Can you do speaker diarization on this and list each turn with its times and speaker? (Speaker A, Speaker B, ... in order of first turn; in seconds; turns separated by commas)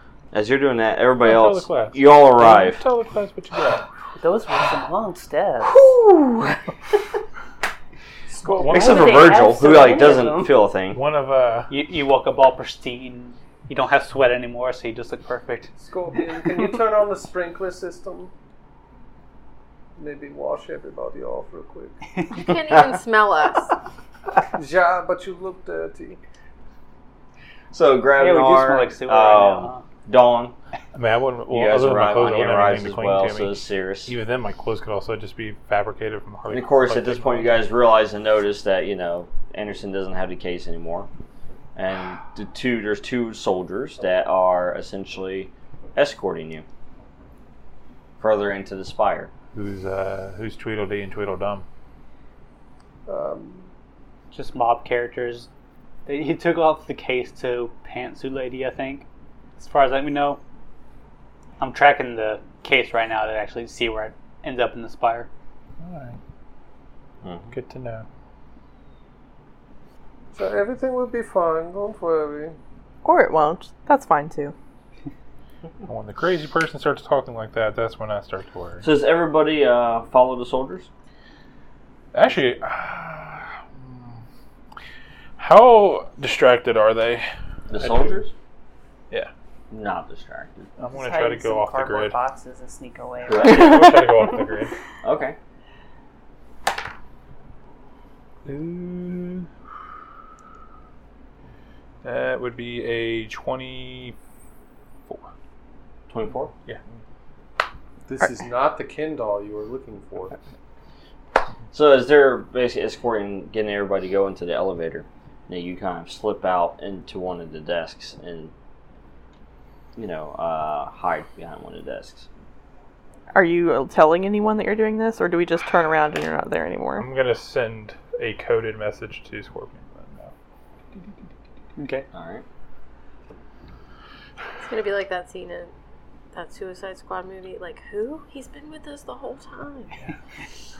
Speaker A: 0.3-2.8, Speaker B: 1.2-3.9, Speaker C: 4.2-5.8, Speaker A: 5.7-6.5, Speaker D: 8.3-10.0, Speaker B: 8.4-9.5, Speaker C: 8.7-10.7, Speaker A: 8.7-11.0, Speaker B: 10.8-11.7, Speaker E: 11.7-15.7, Speaker D: 15.8-18.3, Speaker D: 20.0-22.0, Speaker F: 22.3-23.7, Speaker D: 24.5-26.2, Speaker A: 27.7-30.6, Speaker E: 28.2-29.8, Speaker B: 30.9-33.5, Speaker A: 31.5-34.1, Speaker B: 34.0-37.6, Speaker A: 36.5-41.1, Speaker A: 41.7-46.6, Speaker A: 48.2-49.3, Speaker B: 49.5-51.6, Speaker D: 53.1-53.7, Speaker E: 54.3-55.5, Speaker E: 56.0-59.0, Speaker E: 59.6-60.4, Speaker E: 61.6-65.3, Speaker B: 65.8-66.2, Speaker A: 67.2-67.5, Speaker B: 67.5-68.0, Speaker D: 70.3-72.6, Speaker G: 73.0-74.5, Speaker B: 75.8-78.8, Speaker A: 78.8-80.9, Speaker B: 82.1-84.2, Speaker B: 85.4-88.2, Speaker A: 87.7-88.3, Speaker A: 89.7-90.7, Speaker B: 90.8-92.2, Speaker C: 90.9-94.0, Speaker A: 93.3-94.0, Speaker B: 93.3-94.7, Speaker A: 95.0-95.4, Speaker B: 98.5-99.5, Speaker B: 102.0-104.2, Speaker A: 106.1-106.5, Speaker D: 108.0-110.3, Speaker A: 111.7-118.5, Speaker A: 120.0-122.3, Speaker G: 123.3-127.1, Speaker B: 127.0-130.3, Speaker E: 131.8-132.1, Speaker A: 132.1-132.4, Speaker F: 134.6-135.7, Speaker F: 136.3-139.9